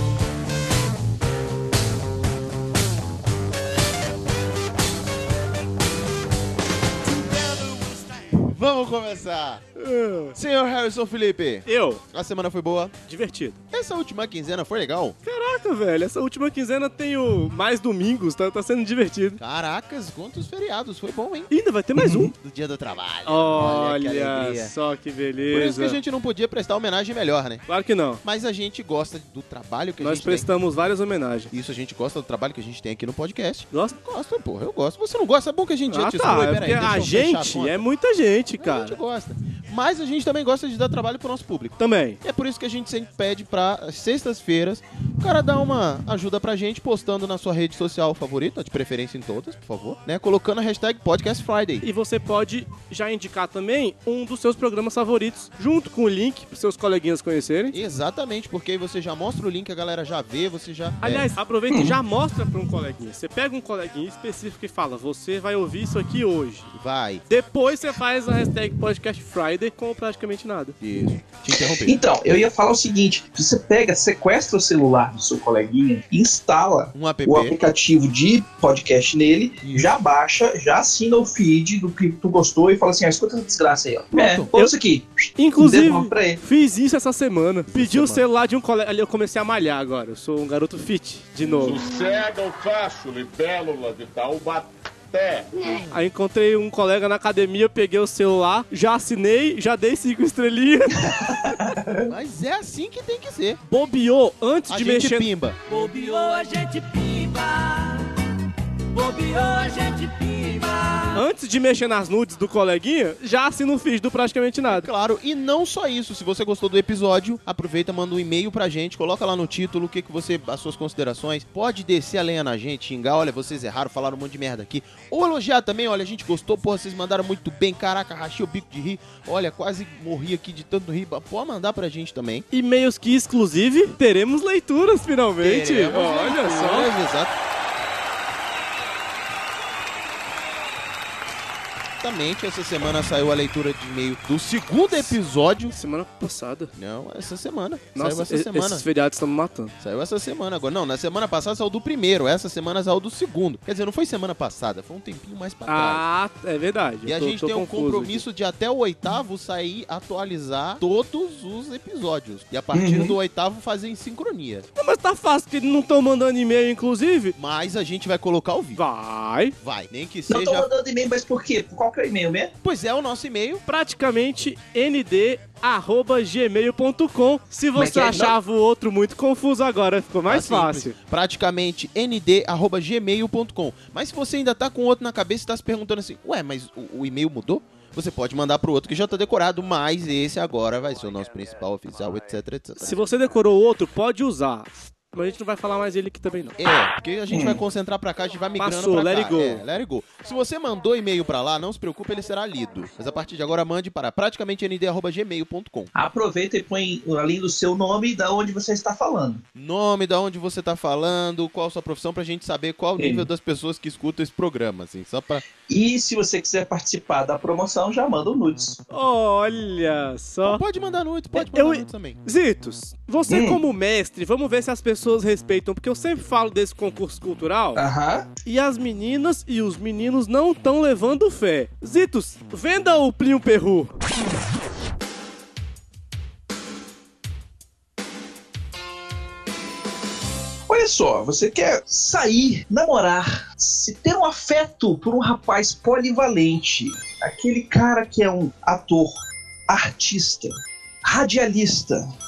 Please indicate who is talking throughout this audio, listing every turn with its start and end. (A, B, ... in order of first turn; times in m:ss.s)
0:07.2-0:09.7 A
0:09.8-0:10.3 B
0:10.3-0:12.9 A
0:11.6-0:12.0 B
0:13.1-0:13.6 B
0:13.7-0:15.2 A
0:15.2-0:19.4 B
0:19.4-0:21.5 A
0:21.5-0:22.3 B
0:22.0-0:22.3 C
0:22.3-0:24.7 A
0:23.2-0:26.0 B
0:25.5-0:27.6 A
0:27.7-0:28.2 B
0:28.2-0:30.5 A
0:30.0-0:31.5 B
0:31.5-0:37.8 A
0:33.7-0:34.0 B
0:35.9-0:39.0 B
0:38.6-0:51.8 A
0:41.8-0:42.2 B
0:51.8-0:57.7 B
0:57.7-1:01.2 A
1:01.0-1:06.7 B
1:01.7-1:02.0 C
1:06.7-1:07.2 A
1:07.3-1:10.8 B
1:10.8-1:12.0 A
1:11.8-1:26.4 C
1:16.9-1:17.6 A
1:19.6-1:19.9 A
1:24.1-1:24.5 A
1:25.4-1:31.8 B
1:27.7-1:28.2 A
1:31.6-1:35.5 D
1:35.9-1:41.0 B
1:41.0-1:42.1 C
1:42.1-1:43.6 A
1:43.6-1:45.3 B
1:44.7-1:45.6 A
1:45.7-1:48.1 E
1:48.9-1:51.2 E
1:51.1-1:54.9 B
1:54.7-2:12.4 A
2:12.5-2:16.9 B
2:15.4-2:17.3 A
2:22.0-2:25.7 A
2:25.7-2:26.7 B
2:26.7-2:28.8 A
2:28.0-2:29.7 B
2:29.8-2:36.0 A
2:35.7-2:38.2 B
2:37.0-2:44.7 A
2:42.7-2:43.2 C
2:44.8-2:47.4 B
2:47.4-2:48.8 A
2:48.8-2:49.5 B
2:49.6-2:50.7 A
2:50.3-2:52.5 C
2:52.6-2:53.6 A
2:53.7-3:00.9 B
2:57.8-2:58.3 C
3:00.3-3:13.0 A
3:12.8-3:16.6 B
3:16.6-3:25.9 A
3:17.3-3:17.6 C
3:18.6-3:19.6 B
3:25.9-3:29.4 C
3:29.5-3:35.4 A
3:33.0-3:33.3 C
3:35.7-3:38.8 C
3:38.9-3:40.6 B
3:40.4-3:42.2 A
3:41.3-3:47.8 B
3:43.3-3:43.6 C
3:47.7-3:48.3 C
3:48.4-3:53.9 B
4:00.7-4:12.0 C